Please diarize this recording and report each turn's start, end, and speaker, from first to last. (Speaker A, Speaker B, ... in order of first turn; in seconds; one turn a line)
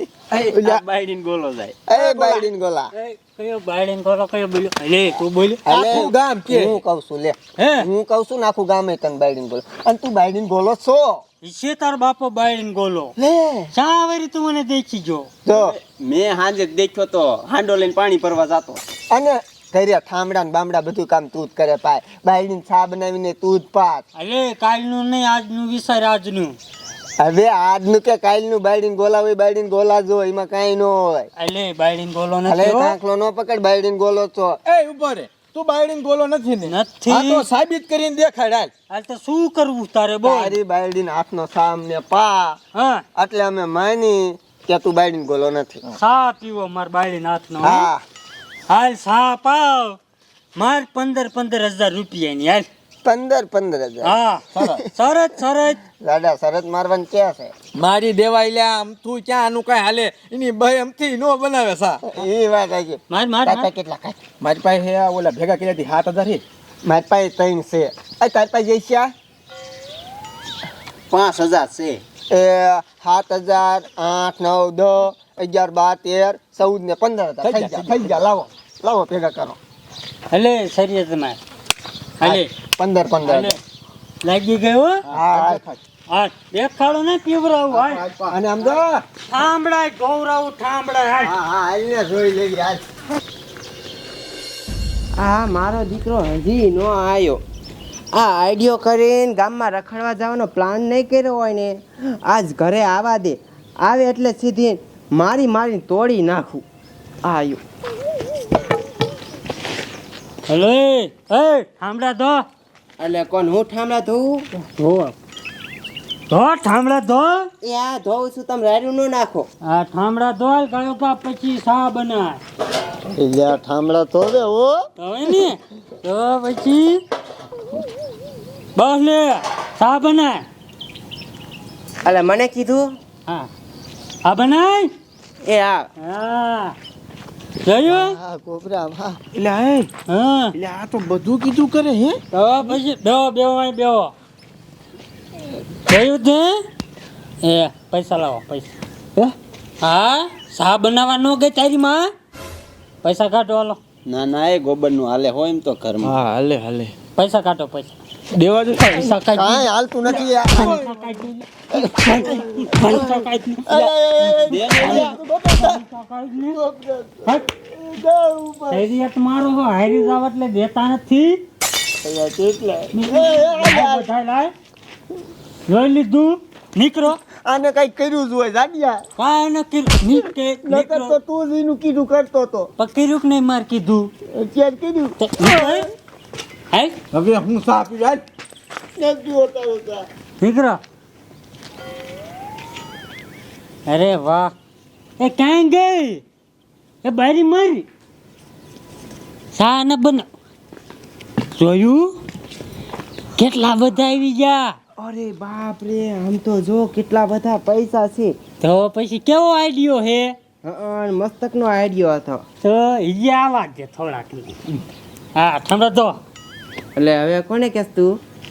Speaker A: 0.3-1.8
Speaker B: 1.9-2.9
Speaker C: 2.2-5.7
Speaker B: 5.7-11.2
Speaker D: 5.7-6.8
Speaker C: 7.6-7.9
Speaker C: 11.4-13.2
Speaker B: 13.2-13.7
Speaker C: 13.7-15.3
Speaker B: 15.4-15.8
Speaker A: 15.5-18.8
Speaker B: 19.1-24.1
Speaker C: 24.2-26.6
Speaker B: 27.2-31.3
Speaker C: 31.4-33.0
Speaker B: 32.5-34.6
Speaker D: 34.7-38.7
Speaker C: 36.7-37.5
Speaker C: 38.9-40.6
Speaker B: 40.2-42.6
Speaker C: 42.7-43.0
Speaker B: 43.1-45.8
Speaker C: 46.0-47.9
Speaker B: 47.6-48.0
Speaker C: 48.7-50.0
Speaker C: 50.6-52.7
Speaker B: 53.0-54.8
Speaker C: 54.0-55.8
Speaker D: 54.5-54.9
Speaker B: 55.9-57.5
Speaker D: 57.8-62.0
Speaker B: 62.0-64.2
Speaker C: 63.1-63.7
Speaker D: 64.4-66.4
Speaker B: 66.8-69.1
Speaker A: 71.1-72.0
Speaker B: 72.3-79.6
Speaker D: 77.4-78.3
Speaker C: 80.3-81.4
Speaker C: 82.2-82.5
Speaker B: 82.2-83.6
Speaker C: 83.2-83.6
Speaker C: 84.2-85.1
Speaker D: 85.1-85.8
Speaker B: 85.1-85.6
Speaker C: 86.1-88.0
Speaker D: 87.8-88.3
Speaker B: 88.3-89.0
Speaker C: 89.3-91.3
Speaker B: 91.2-92.8
Speaker E: 95.2-97.4
Speaker E: 98.1-106.7
Speaker E: 107.2-107.6
Speaker C: 110.5-112.5
Speaker E: 113.0-114.5
Speaker C: 114.7-115.2
Speaker C: 116.3-117.5
Speaker E: 117.6-119.5
Speaker C: 119.6-122.4
Speaker B: 123.2-124.9
Speaker C: 125.0-127.0
Speaker C: 128.8-130.5
Speaker E: 132.0-132.9
Speaker C: 134.2-134.9
Speaker E: 135.4-135.9
Speaker C: 136.0-136.8
Speaker C: 137.7-138.2
Speaker B: 137.9-139.2
Speaker D: 139.3-139.9
Speaker C: 140.1-140.6
Speaker D: 140.5-142.7
Speaker C: 142.3-144.1
Speaker C: 145.9-146.6
Speaker C: 147.4-148.8
Speaker C: 149.8-152.1
Speaker C: 153.0-153.8
Speaker A: 154.1-156.1
Speaker D: 156.0-157.0
Speaker C: 157.2-157.9
Speaker D: 158.3-159.2
Speaker C: 158.9-163.8
Speaker B: 159.3-160.8
Speaker D: 160.2-160.9
Speaker B: 161.8-162.3
Speaker B: 163.7-165.8
Speaker D: 164.2-165.6
Speaker C: 164.4-166.6
Speaker A: 164.5-165.1
Speaker B: 166.5-168.9
Speaker C: 167.2-167.5
Speaker C: 168.7-171.4
Speaker B: 172.0-174.1
Speaker C: 172.9-174.5
Speaker C: 175.7-177.2
Speaker B: 177.5-179.0
Speaker C: 179.2-181.2
Speaker B: 180.7-182.7
Speaker C: 182.8-184.1
Speaker B: 184.3-185.8
Speaker C: 185.2-185.9
Speaker C: 186.7-187.0
Speaker D: 187.1-188.2
Speaker B: 189.0-190.1
Speaker C: 190.4-190.8
Speaker C: 193.9-194.6
Speaker C: 195.2-196.2
Speaker C: 197.0-197.9
Speaker C: 199.5-200.3
Speaker C: 201.6-202.2
Speaker C: 203.4-204.8
Speaker E: 205.0-208.4
Speaker C: 208.6-210.4
Speaker E: 210.6-212.4
Speaker C: 212.6-214.6
Speaker C: 215.3-216.2
Speaker E: 217.0-218.2